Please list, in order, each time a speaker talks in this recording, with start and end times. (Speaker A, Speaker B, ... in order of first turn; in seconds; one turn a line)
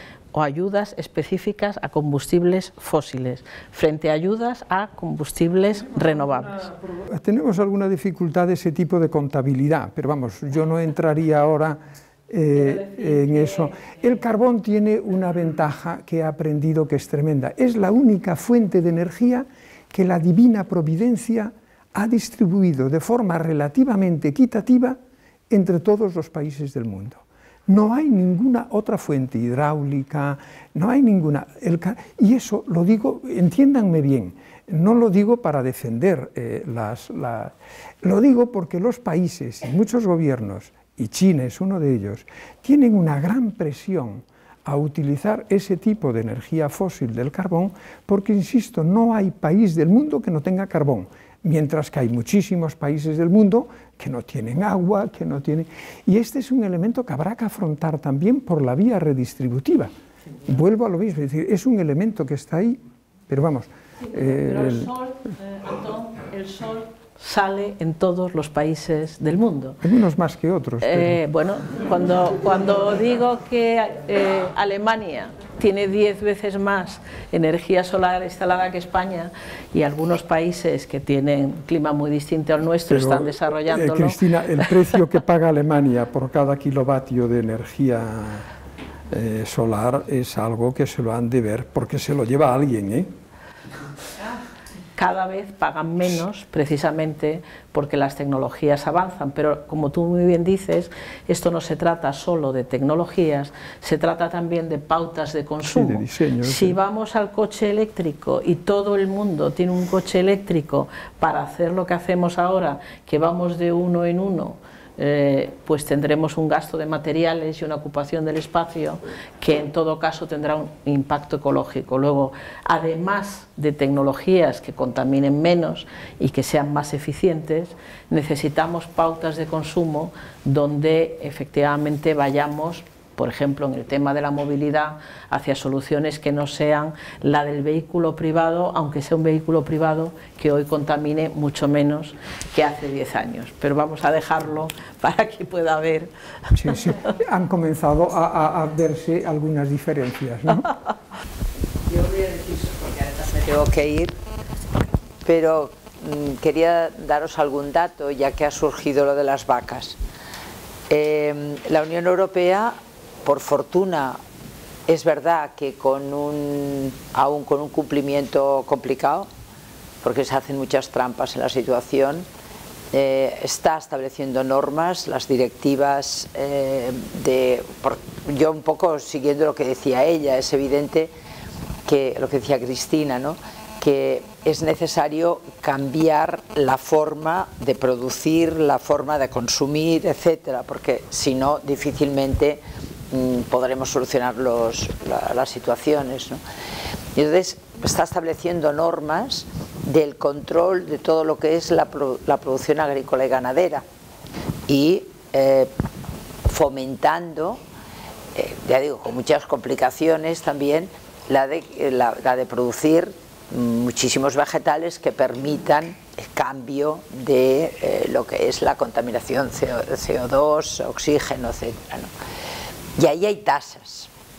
Speaker A: 0.3-6.8
Speaker B: 7.0-25.0
Speaker A: 13.0-13.5
Speaker B: 25.5-59.9
Speaker B: 60.4-64.9
Speaker A: 64.4-69.8
Speaker B: 69.8-71.2
Speaker A: 70.8-84.7
Speaker B: 82.9-88.5
Speaker B: 89.1-93.1
Speaker A: 95.0-146.1
Speaker B: 105.6-106.8
Speaker B: 146.5-150.7
Speaker C: 151.8-154.2
Speaker C: 155.2-160.0
Speaker C: 160.9-164.2
Speaker C: 164.9-169.3
Speaker C: 170.0-172.3
Speaker C: 172.9-181.1
Speaker C: 181.8-196.4
Speaker C: 197.1-203.8
Speaker C: 204.7-205.7
Speaker C: 206.5-207.6
Speaker C: 208.3-222.1
Speaker C: 223.0-224.1